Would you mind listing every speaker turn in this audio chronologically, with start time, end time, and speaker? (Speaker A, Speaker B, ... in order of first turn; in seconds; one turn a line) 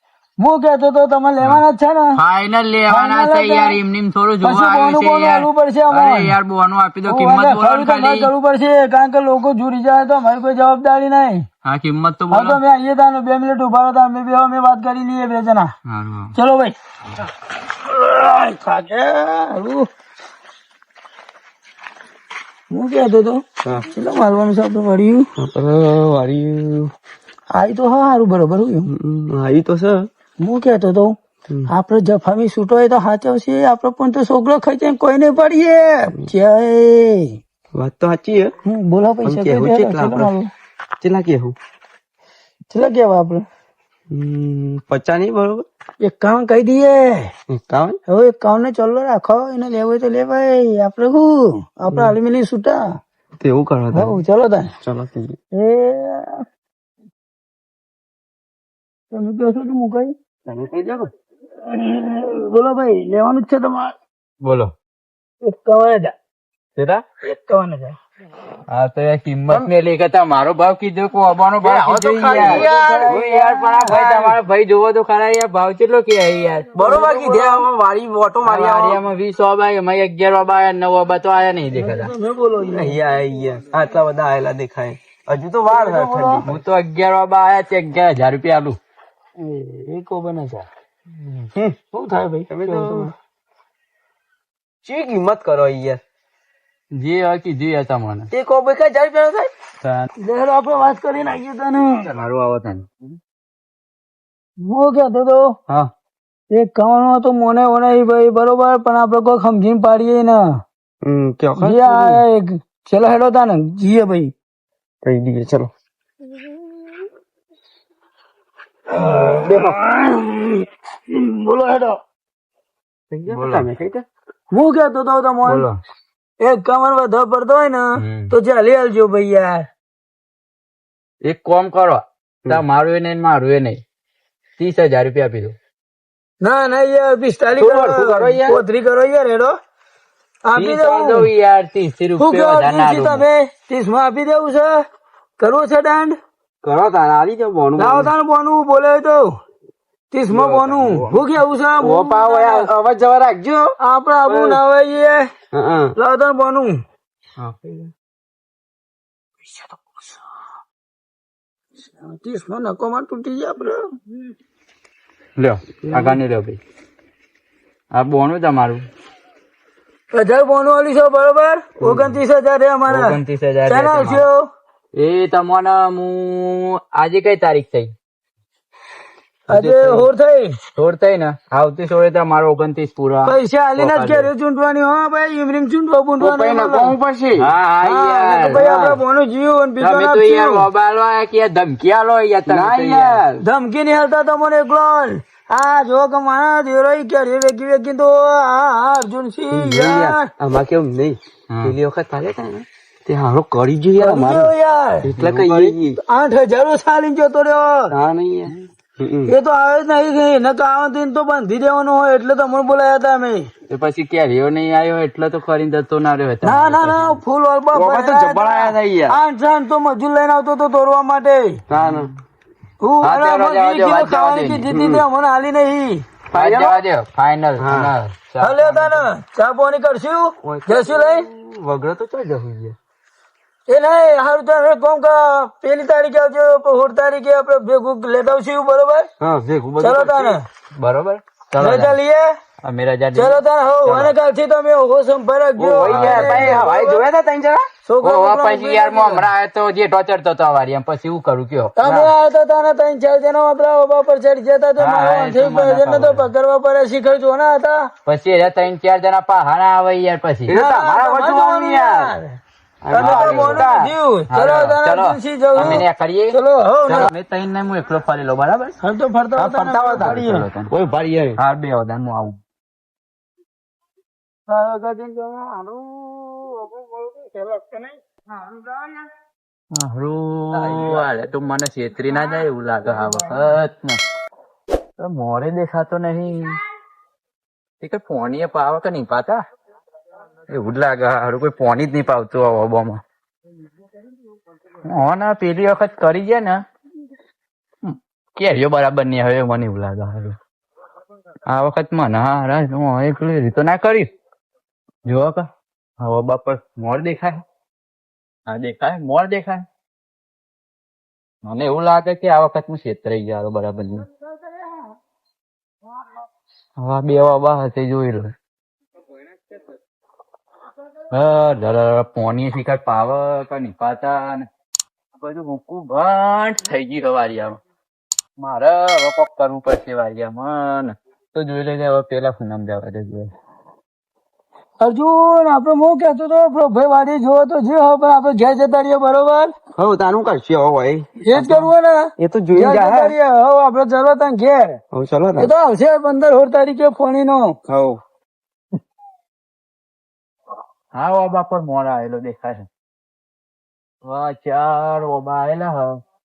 Speaker A: 0.4-2.2
Speaker B: 2.1-8.3
Speaker A: 2.9-3.8
Speaker A: 4.4-6.3
Speaker A: 7.0-11.4
Speaker B: 11.6-12.6
Speaker A: 12.3-15.7
Speaker B: 15.8-16.3
Speaker A: 16.3-16.7
Speaker A: 17.8-19.9
Speaker A: 22.7-25.3
Speaker C: 25.4-26.9
Speaker A: 27.5-28.9
Speaker C: 28.9-30.1
Speaker A: 30.4-31.1
Speaker A: 31.7-37.4
Speaker C: 37.7-38.5
Speaker A: 38.6-40.5
Speaker C: 39.2-40.3
Speaker C: 41.0-41.5
Speaker A: 42.7-43.4
Speaker C: 44.1-45.7
Speaker A: 46.0-47.3
Speaker C: 47.5-48.0
Speaker A: 48.1-53.0
Speaker C: 53.4-54.2
Speaker A: 53.9-54.7
Speaker C: 54.8-55.4
Speaker A: 55.5-56.4
Speaker A: 59.1-60.1
Speaker C: 60.5-61.1
Speaker A: 61.6-63.9
Speaker B: 64.4-64.7
Speaker A: 65.4-66.1
Speaker B: 66.8-67.0
Speaker A: 67.2-68.0
Speaker B: 68.7-76.7
Speaker C: 71.6-74.4
Speaker A: 72.3-73.4
Speaker A: 76.8-77.6
Speaker C: 76.8-79.0
Speaker B: 78.4-82.1
Speaker A: 81.8-83.0
Speaker C: 82.6-86.6
Speaker A: 85.7-86.4
Speaker B: 86.4-88.8
Speaker A: 89.4-90.7
Speaker A: 91.9-93.1
Speaker C: 92.5-93.1
Speaker C: 94.8-96.0
Speaker B: 96.9-98.3
Speaker C: 98.3-99.5
Speaker B: 99.8-100.1
Speaker A: 100.2-102.1
Speaker B: 102.0-103.1
Speaker A: 104.6-105.5
Speaker A: 106.5-110.5
Speaker C: 111.0-112.2
Speaker A: 111.6-114.3
Speaker C: 115.0-115.7
Speaker A: 118.9-122.0
Speaker C: 123.1-124.0
Speaker B: 123.3-123.7
Speaker A: 124.5-125.7
Speaker B: 125.5-125.8
Speaker A: 126.4-129.7
Speaker B: 128.0-128.3
Speaker B: 131.2-133.8
Speaker B: 134.6-135.6
Speaker A: 136.4-139.5
Speaker C: 137.5-138.6
Speaker A: 140.4-141.3
Speaker B: 140.5-143.2
Speaker A: 142.2-144.8
Speaker A: 145.4-146.2
Speaker C: 146.6-148.1
Speaker A: 147.8-149.3
Speaker A: 150.1-152.7
Speaker C: 150.3-151.2
Speaker B: 150.4-151.0
Speaker C: 151.8-153.7
Speaker A: 153.8-155.2
Speaker C: 154.3-154.6
Speaker C: 155.5-155.9
Speaker A: 155.9-156.8
Speaker C: 157.4-157.9
Speaker A: 159.4-160.0
Speaker A: 161.9-163.9
Speaker B: 165.4-166.6
Speaker C: 165.8-166.2
Speaker B: 167.9-168.8
Speaker A: 170.1-174.4
Speaker B: 171.8-172.2
Speaker B: 172.9-174.2
Speaker B: 174.9-177.9
Speaker A: 179.5-180.6
Speaker B: 179.5-180.1
Speaker B: 180.7-184.3
Speaker A: 183.2-186.9
Speaker C: 186.2-187.5
Speaker B: 187.3-188.6
Speaker A: 187.8-190.7
Speaker C: 188.5-189.0
Speaker B: 189.8-193.2
Speaker C: 192.4-193.4
Speaker A: 193.4-200.3
Speaker C: 199.5-204.5
Speaker B: 201.5-201.8
Speaker A: 204.0-205.1
Speaker C: 205.0-206.0
Speaker B: 205.2-205.7
Speaker A: 206.0-207.9
Speaker C: 207.9-209.3
Speaker A: 209.3-213.5
Speaker B: 213.7-217.2
Speaker A: 216.4-221.6
Speaker C: 217.7-219.2
Speaker C: 221.7-222.1
Speaker B: 221.8-222.1
Speaker A: 222.8-226.0
Speaker B: 223.0-224.7
Speaker C: 224.7-225.0
Speaker C: 226.3-226.8
Speaker B: 226.3-229.1
Speaker C: 227.6-227.9
Speaker A: 228.4-231.2
Speaker C: 230.4-232.8
Speaker A: 233.7-239.1
Speaker C: 239.2-240.4
Speaker A: 239.8-240.4
Speaker B: 240.8-241.9
Speaker A: 241.6-242.3
Speaker B: 242.6-243.4
Speaker A: 243.1-247.0
Speaker C: 243.8-244.1
Speaker C: 245.6-247.7
Speaker B: 245.8-246.7
Speaker A: 247.8-249.3
Speaker B: 248.0-251.7
Speaker A: 251.8-257.9
Speaker C: 251.8-252.1
Speaker B: 254.8-256.3
Speaker B: 258.1-260.6
Speaker C: 260.5-262.1
Speaker A: 260.5-262.4
Speaker C: 262.8-263.9
Speaker B: 262.9-263.7
Speaker A: 262.9-267.1
Speaker B: 264.3-268.8
Speaker A: 268.8-270.5
Speaker C: 269.4-271.4
Speaker B: 270.0-270.7
Speaker B: 271.4-272.4
Speaker A: 274.5-277.9
Speaker A: 278.4-278.7
Speaker B: 279.7-284.0
Speaker C: 280.5-281.0
Speaker B: 285.0-286.6
Speaker B: 287.8-289.4
Speaker B: 290.5-293.0
Speaker B: 294.9-296.6
Speaker B: 297.8-300.4
Speaker B: 301.5-304.1
Speaker B: 305.1-307.4
Speaker B: 308.5-309.6
Speaker B: 311.4-314.1
Speaker B: 316.8-318.3
Speaker B: 321.1-324.5
Speaker B: 325.2-327.6
Speaker B: 328.4-333.3
Speaker A: 334.8-339.5
Speaker C: 339.8-341.6
Speaker A: 341.2-344.8
Speaker C: 342.2-343.1
Speaker C: 344.9-345.5
Speaker A: 345.4-347.6
Speaker C: 347.7-348.0
Speaker B: 350.9-352.7
Speaker B: 354.0-356.0